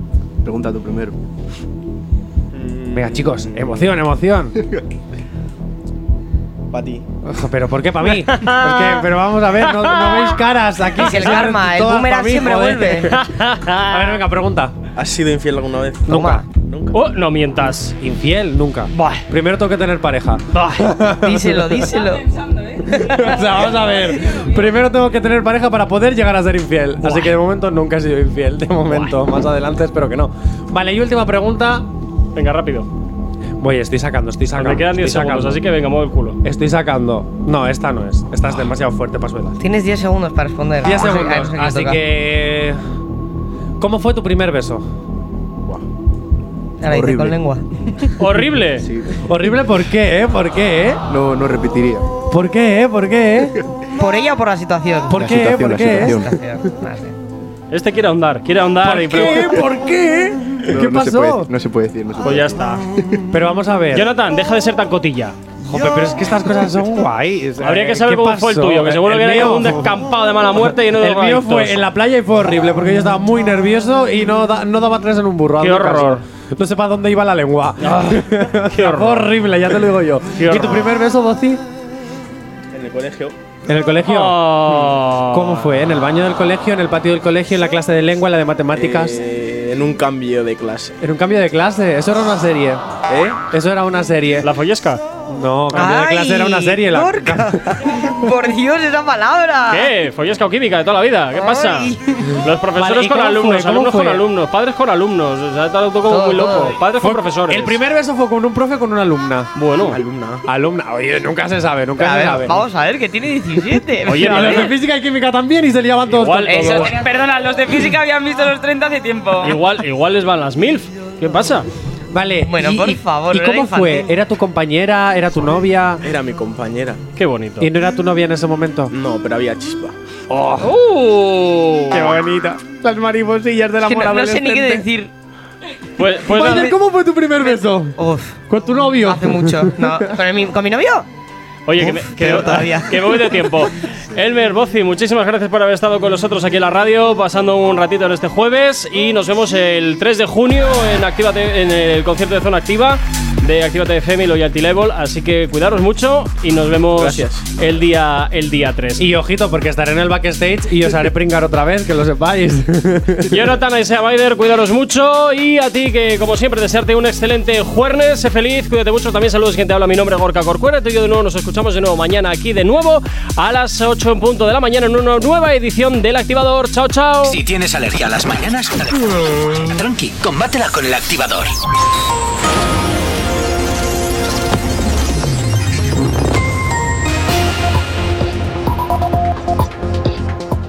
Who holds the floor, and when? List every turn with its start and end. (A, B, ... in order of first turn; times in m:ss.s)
0:00.4-0:01.2 A
0:02.5-0:03.9 B
0:02.9-0:04.6 C
0:06.7-0:07.0 B
0:07.3-0:13.3 C
0:08.1-0:09.1 D
0:09.6-0:10.4 D
0:11.0-0:11.5 D
0:11.0-0:13.1 E
0:13.1-0:14.2 D
0:13.9-0:14.8 C
0:15.0-0:17.0 B
0:16.1-0:16.4 C
0:16.1-0:16.5 E
0:16.9-0:18.0 D
0:18.0-0:21.8 C
0:19.0-0:19.3 D
0:20.5-0:20.9 D
0:21.1-0:22.2 E
0:22.0-0:23.0 F
0:22.9-0:23.6 E
0:22.9-0:31.9 C
0:27.0-0:27.3 E
0:32.4-0:32.9 D
0:33.6-0:35.6 C
0:34.6-0:36.4 D
0:36.4-0:39.6 C
0:39.6-0:42.0 E
0:40.8-0:42.8 C
0:43.8-0:44.8 C
0:46.8-0:47.6 E
0:46.8-0:47.4 A
0:48.2-0:48.9 D
0:48.8-0:49.2 A
0:49.2-0:51.0 C
0:51.1-0:52.1 A
0:52.3-0:53.6 C
0:54.0-0:57.2 E
0:55.1-0:56.2 C
0:55.1-0:56.4 A
0:57.7-0:59.6 D
0:58.8-1:01.5 C
1:00.7-1:03.2 A
1:02.2-1:02.8 D
1:03.3-1:04.1 C
1:03.9-1:05.4 D
1:05.6-1:10.0 C
1:07.6-1:11.8 D
1:11.0-1:21.6 C
1:15.6-1:16.2 D
1:17.8-1:19.3 D
1:20.4-1:20.9 D
1:22.7-1:23.4 B
1:23.7-1:29.2 C
1:24.1-1:25.7 D
1:28.7-1:31.0 B
1:31.0-1:32.8 C
1:33.1-1:33.4 B
1:33.5-1:34.5 C
1:34.4-1:35.0 D
1:35.3-1:38.0 C
1:35.7-1:39.9 E
1:39.7-1:47.8 D
1:41.3-1:42.4 E
1:42.8-1:44.2 C
1:46.1-1:46.8 E
1:47.0-1:49.5 C
1:49.6-1:50.0 D
1:49.8-1:50.4 B
1:50.5-1:52.6 C
1:52.0-1:54.7 E
1:54.1-1:54.7 D
1:54.2-1:57.0 C
1:56.1-1:56.9 D
1:56.5-1:57.0 E
1:56.6-1:59.6 F
1:59.4-2:01.7 D
2:02.1-2:06.0 C
2:02.4-2:04.1 E
2:06.0-2:07.0 B
2:07.2-2:07.7 D
2:07.6-2:08.9 C
2:08.9-2:10.0 B
2:10.3-2:10.7 C
2:10.6-2:12.2 D
2:11.9-2:14.9 C
2:13.8-2:15.1 E
2:16.0-2:16.7 D
2:16.2-2:20.2 C
2:16.3-2:16.8 E
2:17.4-2:18.4 E
2:19.0-2:21.1 E
2:21.7-2:39.1 D
2:21.8-2:23.2 E
2:37.0-2:37.5 B
2:39.0-2:43.3 C
2:43.3-2:57.4 D
2:57.2-3:01.5 G